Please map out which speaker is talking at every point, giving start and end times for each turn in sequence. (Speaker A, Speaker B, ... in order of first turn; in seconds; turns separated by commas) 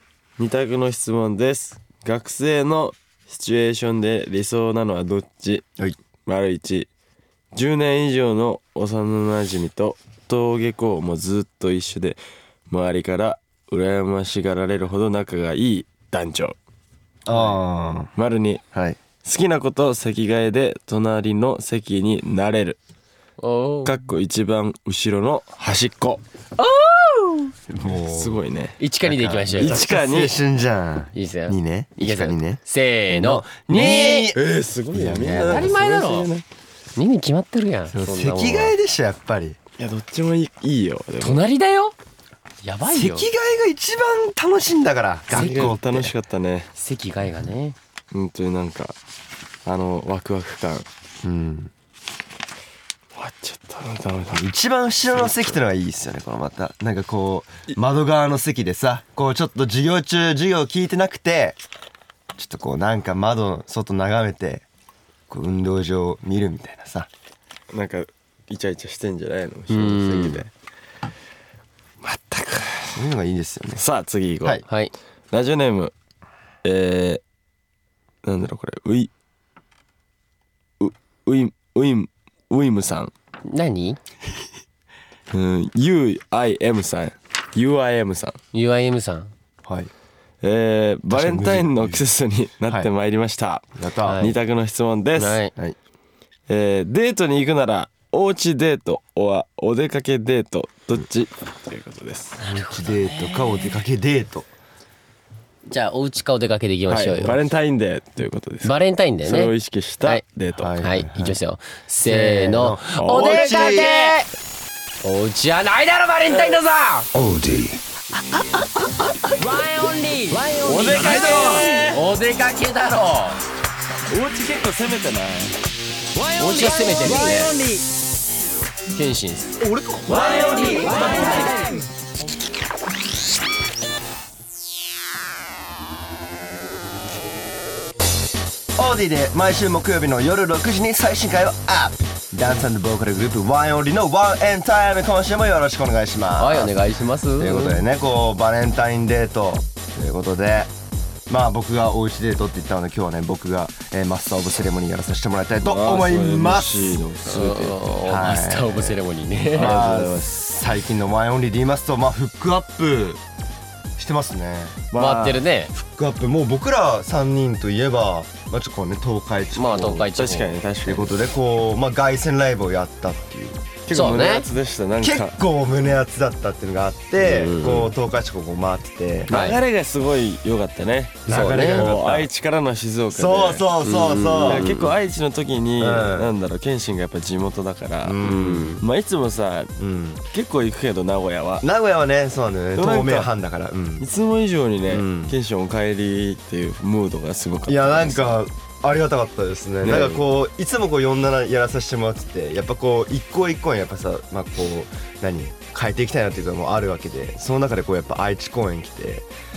Speaker A: 0.4-5.6, Speaker A: 6.2-6.9, Speaker A: 7.5-12.2, Speaker A: 12.7-16.6, Speaker B: 17.2-18.1, Speaker A: 18.1-18.6, Speaker B: 18.7-19.0, Speaker A: 19.2-22.8, Speaker C: 23.4-24.0, Speaker A: 23.8-26.2, Speaker C: 26.6-27.5, Speaker B: 27.7-28.4, Speaker A: 27.9-28.8, Speaker C: 28.8-29.8, Speaker B: 29.1-35.7, Speaker A: 29.5-30.4, Speaker C: 31.1-34.3, Speaker A: 33.7-36.4, Speaker C: 35.5-36.3, Speaker C: 37.0-38.7, Speaker B: 37.9-39.6, Speaker A: 39.8-41.4, Speaker C: 41.2-41.9, Speaker C: 42.6-43.3, Speaker B: 42.8-46.1, Speaker A: 45.3-46.7, Speaker C: 45.3-45.8, Speaker C: 46.8-47.8, Speaker A: 48.1-49.0, Speaker A: 49.6-50.9, Speaker B: 51.2-51.7, Speaker A: 53.1-54.4, Speaker B: 54.3-61.6, Speaker A: 55.1-55.5, Speaker B: 62.4-64.6, Speaker B: 65.3-67.1, Speaker A: 67.7-70.5, Speaker C: 69.7-70.5, Speaker A: 72.0-73.0, Speaker B: 72.9-73.8, Speaker A: 73.8-74.6, Speaker C: 74.7-74.9, Speaker A: 75.3-75.9, Speaker A: 76.6-77.2, Speaker A: 78.2-79.1, Speaker A: 80.8-83.1, Speaker C: 83.4-84.0, Speaker A: 85.3-88.4, Speaker C: 88.5-89.3, Speaker B: 89.6-89.9, Speaker A: 90.4-95.4, Speaker B: 91.1-92.0, Speaker B: 93.8-94.3, Speaker C: 94.0-94.4, Speaker C: 95.2-95.5, Speaker A: 96.5-102.4, Speaker C: 102.4-103.7, Speaker B: 102.5-104.5, Speaker C: 105.7-107.4, Speaker A: 106.9-110.8, Speaker C: 108.6-109.5, Speaker B: 110.5-111.3, Speaker C: 110.8-114.3, Speaker B: 112.1-113.9, Speaker A: 112.9-114.1, Speaker C: 115.0-117.1, Speaker B: 117.1-117.8, Speaker B: 118.6-119.2, Speaker C: 119.4-123.4, Speaker A: 120.5-122.0, Speaker B: 120.9-121.6, Speaker A: 124.1-125.6, Speaker A: 126.1-127.8, Speaker C: 126.3-127.6, Speaker C: 128.9-129.6, Speaker B: 129.6-130.8, Speaker A: 130.1-131.8, Speaker C: 130.5-131.7, Speaker B: 138.7-146.8, Speaker C: 146.3-147.8, Speaker B: 147.4-150.7, Speaker B: 151.3-157.0, Speaker A: 155.6-158.0, Speaker C: 157.2-159.9, Speaker B: 158.0-159.0, Speaker A: 159.5-160.4, Speaker B: 159.5-163.2, Speaker B: 164.0-164.8, Speaker A: 164.9-165.4, Speaker C: 164.9-165.7, Speaker B: 165.7-170.0, Speaker C: 169.5-170.6, Speaker A: 170.0-171.2, Speaker B: 170.8-173.7, Speaker A: 173.9-175.3, Speaker C: 173.9-174.4, Speaker B: 175.0-179.4, Speaker C: 177.2-177.9, Speaker A: 179.3-183.7, Speaker C: 179.3-179.6, Speaker B: 181.2-182.3, Speaker C: 181.3-181.9, Speaker B: 183.1-184.9, Speaker C: 183.8-184.9, Speaker A: 184.4-191.6, Speaker B: 185.8-186.3, Speaker B: 188.0-188.8, Speaker C: 188.2-188.8, Speaker B: 189.8-190.2, Speaker B: 191.6-194.1, Speaker A: 192.8-193.3, Speaker A: 194.0-198.4, Speaker B: 194.9-195.3, Speaker B: 197.7-209.3, Speaker A: 199.8-200.2